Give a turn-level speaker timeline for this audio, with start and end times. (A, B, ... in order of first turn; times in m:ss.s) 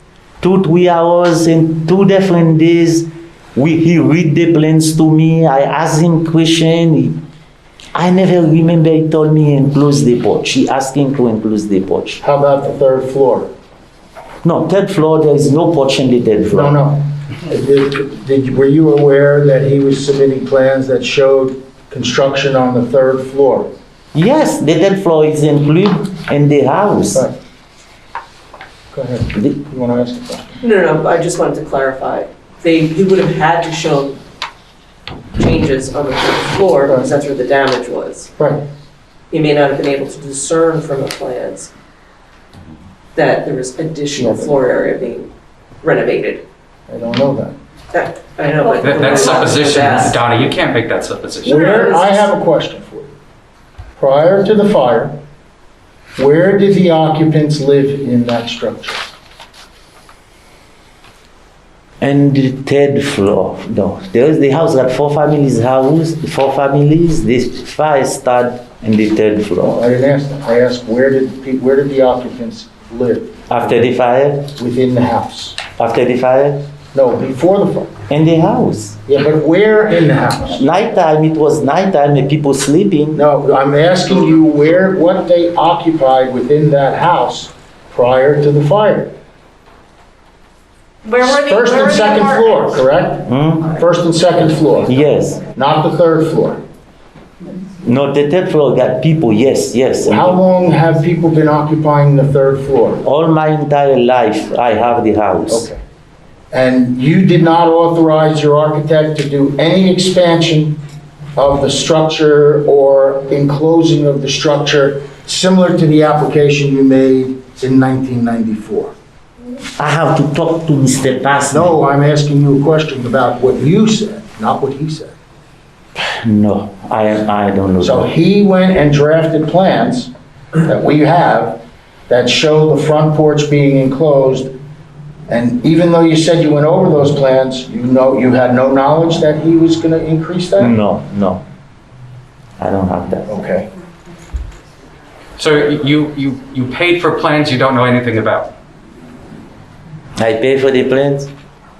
0:00.4-0:07.2 A
0:08.0-0:12.2 A
0:12.2-0:13.5 B
0:14.4-0:16.8 A
0:16.5-0:23.7 B
0:24.1-0:27.3 A
0:28.9-0:30.6 B
0:30.6-0:34.2 C
0:35.3-0:38.3 C
0:39.3-0:41.7 C
0:43.2-0:45.3 C
0:44.2-0:44.5 B
0:45.8-0:46.4 C
0:46.9-0:47.5 B
0:47.9-0:50.2 C
0:48.6-0:49.0 D
0:48.8-0:51.7 E
0:51.4-0:53.1 B
0:51.5-0:52.2 C
0:54.0-0:55.2 B
0:56.2-0:59.1 B
1:02.0-1:09.8 A
1:09.6-1:13.4 B
1:13.5-1:14.5 A
1:14.6-1:15.6 B
1:15.7-1:16.6 A
1:16.9-1:17.9 B
1:18.1-1:19.0 A
1:19.1-1:20.6 B
1:20.5-1:23.2 A
1:23.1-1:29.1 B
1:31.0-1:32.9 D
1:31.2-1:34.9 B
1:33.2-1:33.7 A
1:34.9-1:35.5 A
1:35.5-1:36.6 B
1:37.8-1:40.4 A
1:40.0-1:43.0 B
1:43.0-1:45.7 A
1:45.5-1:45.8 B
1:46.5-1:50.8 B
1:51.4-1:58.9 B
1:59.8-2:01.8 A
2:01.5-2:05.1 B
2:06.0-2:08.1 A
2:07.8-2:10.1 B
2:10.6-2:14.5 B
2:15.3-2:20.8 B
2:20.6-2:21.4 A
2:22.6-2:23.3 A
2:23.3-2:23.7 B
2:25.4-2:28.5 E
2:30.2-2:31.3 A